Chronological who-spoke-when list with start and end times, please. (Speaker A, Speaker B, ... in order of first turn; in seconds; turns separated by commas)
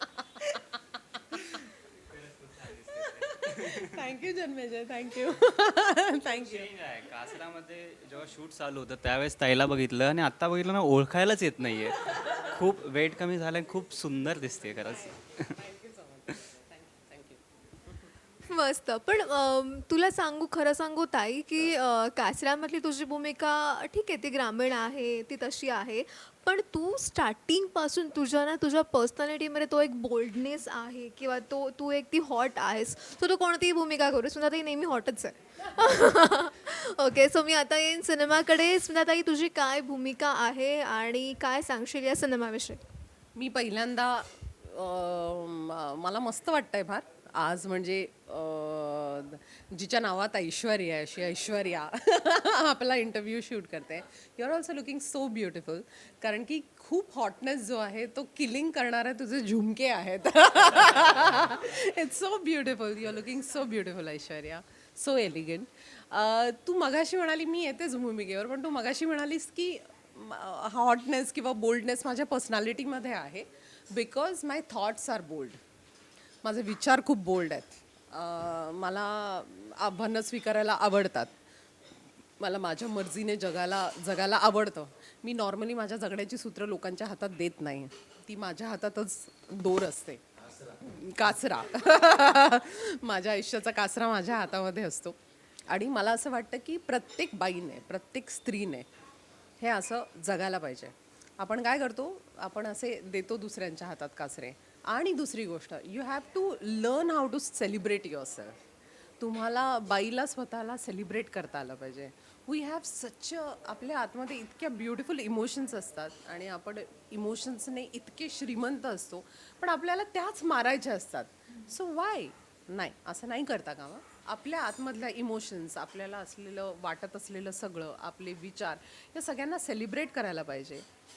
Speaker A: 0.2-0.6, Speaker B: 2.5-3.4, Speaker A: 2.8-6.7, Speaker B: 6.3-15.6, Speaker A: 14.9-18.1, Speaker C: 18.5-42.8, Speaker A: 43.4-75.6, Speaker A: 76.4-81.3, Speaker A: 82.4-90.2, Speaker A: 90.8-95.2, Speaker A: 95.7-98.9, Speaker A: 99.6-108.6, Speaker A: 109.2-130.8